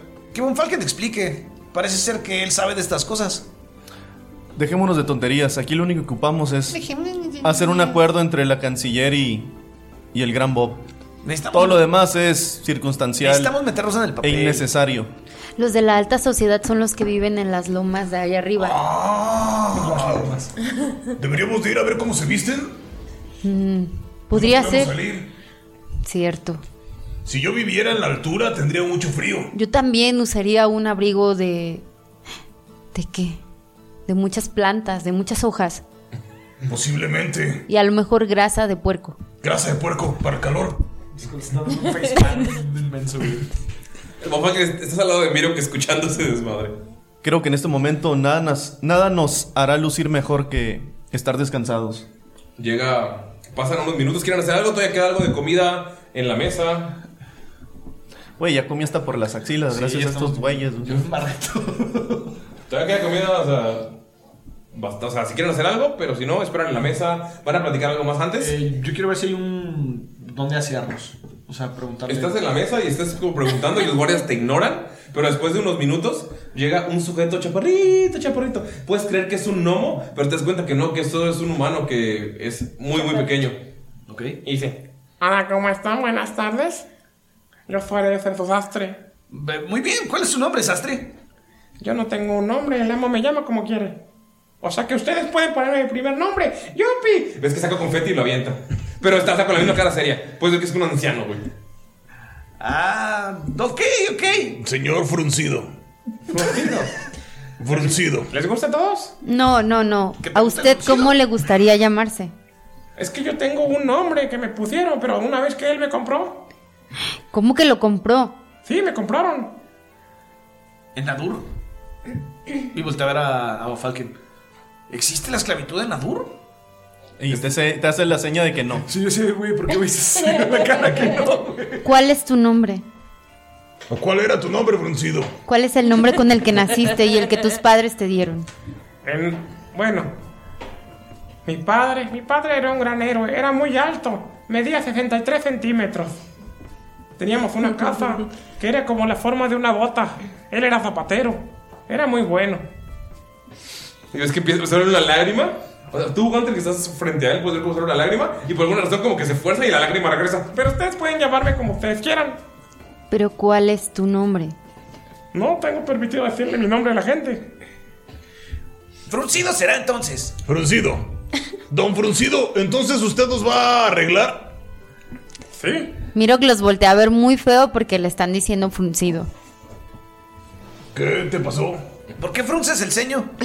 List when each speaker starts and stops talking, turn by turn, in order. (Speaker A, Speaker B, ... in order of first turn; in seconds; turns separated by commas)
Speaker A: 0.3-3.4, Speaker B: 4.5-6.8, Speaker B: 7.4-9.5, Speaker B: 10.1-10.8, Speaker A: 11.2-11.8, Speaker B: 11.5-13.6, Speaker A: 13.2-14.7, Speaker B: 14.2-15.1, Speaker C: 15.6-18.8, Speaker D: 18.6-20.4, Speaker A: 19.7-20.5, Speaker D: 21.2-22.7, Speaker C: 23.4-24.9, Speaker D: 24.3-25.3, Speaker C: 26.0-26.6, Speaker D: 27.2-29.5, Speaker C: 29.5-31.8, Speaker C: 32.9-33.4, Speaker C: 34.1-35.8, Speaker D: 36.7-37.6, Speaker C: 37.7-39.2, Speaker D: 39.4-40.8, Speaker A: 41.2-43.5, Speaker E: 44.2-46.7, Speaker B: 47.2-52.0, Speaker E: 52.6-57.0, Speaker B: 58.4-61.0, Speaker A: 59.7-62.3, Speaker E: 62.7-63.9, Speaker E: 64.7-68.5, Speaker A: 68.4-72.3, Speaker E: 72.1-83.6, Speaker A: 84.1-84.4, Speaker E: 84.4-84.8, Speaker F: 85.2-86.8, Speaker F: 87.7-89.0, Speaker A: 89.3-91.1, Speaker F: 91.8-94.0, Speaker F: 94.6-97.4, Speaker E: 97.4-101.5, Speaker A: 102.6-104.6, Speaker D: 104.6-105.7, Speaker F: 106.3-106.9, Speaker D: 107.6-108.3, Speaker F: 108.3-109.1, Speaker C: 109.2-112.3, Speaker A: 110.2-111.1, Speaker F: 113.0-116.4, Speaker C: 117.3-118.3, Speaker F: 118.7-119.5, Speaker A: 120.9-121.5, Speaker A: 122.7-124.1, Speaker A: 124.9-126.3, Speaker B: 127.2-128.8, Speaker A: 128.9-131.8, Speaker C: 131.8-132.8, Speaker D: 133.9-135.3, Speaker C: 135.4-138.5, Speaker F: 139.0-140.1, Speaker F: 141.4-146.2, Speaker F: 147.2-152.6, Speaker E: 154.1-160.5, Speaker F: 160.5-162.4, Speaker C: 163.1-164.5, Speaker F: 165.3-167.5, Speaker A: 169.1-170.3, Speaker D: 170.4-171.1, Speaker D: 171.7-174.5, Speaker F: 175.5-175.9, Speaker C: 176.1-179.3, Speaker D: 180.9-181.8, Speaker A: 182.2-183.3